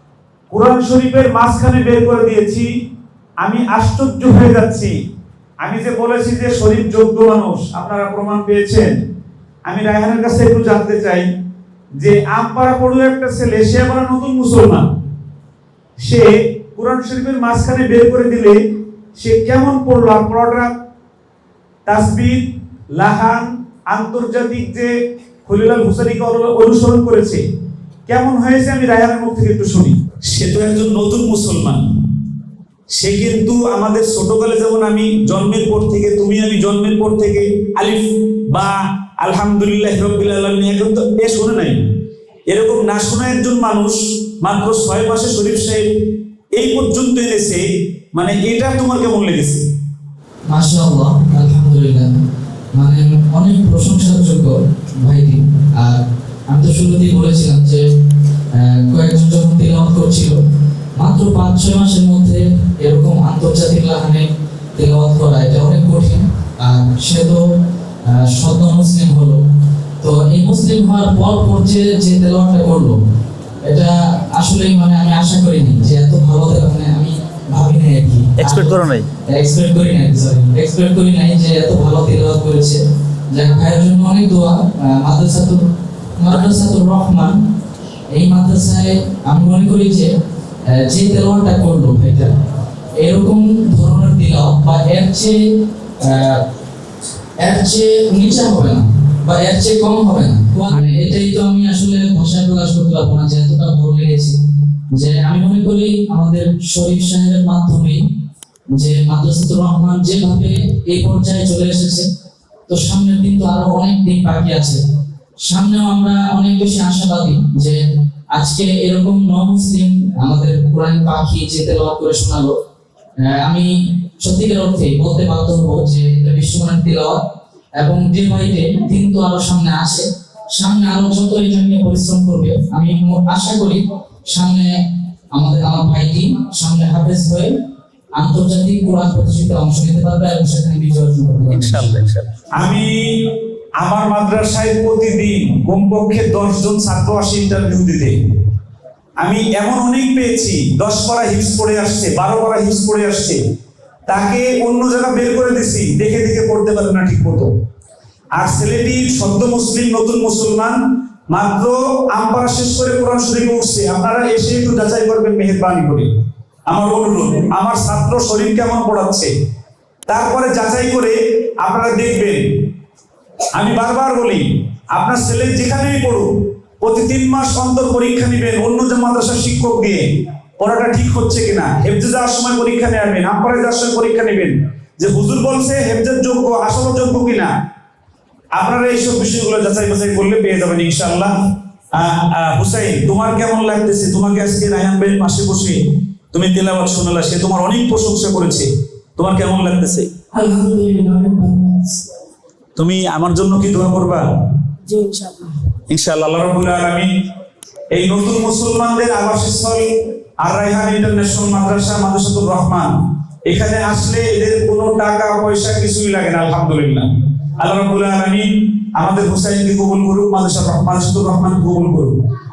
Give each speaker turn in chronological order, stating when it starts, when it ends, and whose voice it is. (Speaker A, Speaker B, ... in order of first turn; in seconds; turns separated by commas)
Speaker A: 0.5-2.7, Speaker A: 3.4-4.9, Speaker A: 5.6-8.9, Speaker A: 9.7-11.2, Speaker A: 12.0-14.9, Speaker A: 16.0-18.6, Speaker A: 19.2-20.7, Speaker A: 21.9-22.4, Speaker A: 22.9-24.9, Speaker A: 25.4-27.4, Speaker A: 28.1-31.9, Speaker A: 33.0-41.8, Speaker A: 42.5-45.9, Speaker A: 46.5-49.6, Speaker B: 50.5-52.1, Speaker B: 52.7-57.8, Speaker B: 58.5-60.4, Speaker B: 61.0-67.4, Speaker B: 68.1-69.4, Speaker B: 70.0-73.0, Speaker B: 73.7-82.8, Speaker A: 78.4-79.0, Speaker B: 83.3-85.6, Speaker B: 86.2-87.3, Speaker B: 88.1-90.1, Speaker B: 90.7-92.3, Speaker B: 93.0-95.3, Speaker B: 96.0-96.4, Speaker B: 97.4-104.4, Speaker A: 100.7-100.9, Speaker B: 104.9-108.0, Speaker B: 108.7-112.0, Speaker B: 112.7-114.8, Speaker B: 115.5-117.8, Speaker B: 118.3-122.5, Speaker B: 123.2-123.7, Speaker B: 124.2-127.2, Speaker B: 127.8-134.7, Speaker B: 135.3-137.5, Speaker B: 138.2-142.1, Speaker A: 141.5-143.2, Speaker A: 143.8-148.1, Speaker A: 149.2-153.4, Speaker A: 154.1-157.5, Speaker A: 158.3-160.8, Speaker A: 161.3-166.1, Speaker A: 166.7-169.3, Speaker A: 170.1-172.4, Speaker A: 173.5-174.4, Speaker A: 174.9-176.3, Speaker A: 176.8-180.0, Speaker A: 180.6-187.5, Speaker A: 188.5-191.3, Speaker A: 191.9-195.8, Speaker A: 196.3-200.1, Speaker C: 200.3-202.0, Speaker A: 202.8-204.3, Speaker C: 204.8-205.6, Speaker A: 205.9-207.1, Speaker A: 207.9-209.8, Speaker A: 210.4-212.9, Speaker A: 213.5-217.1, Speaker A: 217.6-222.1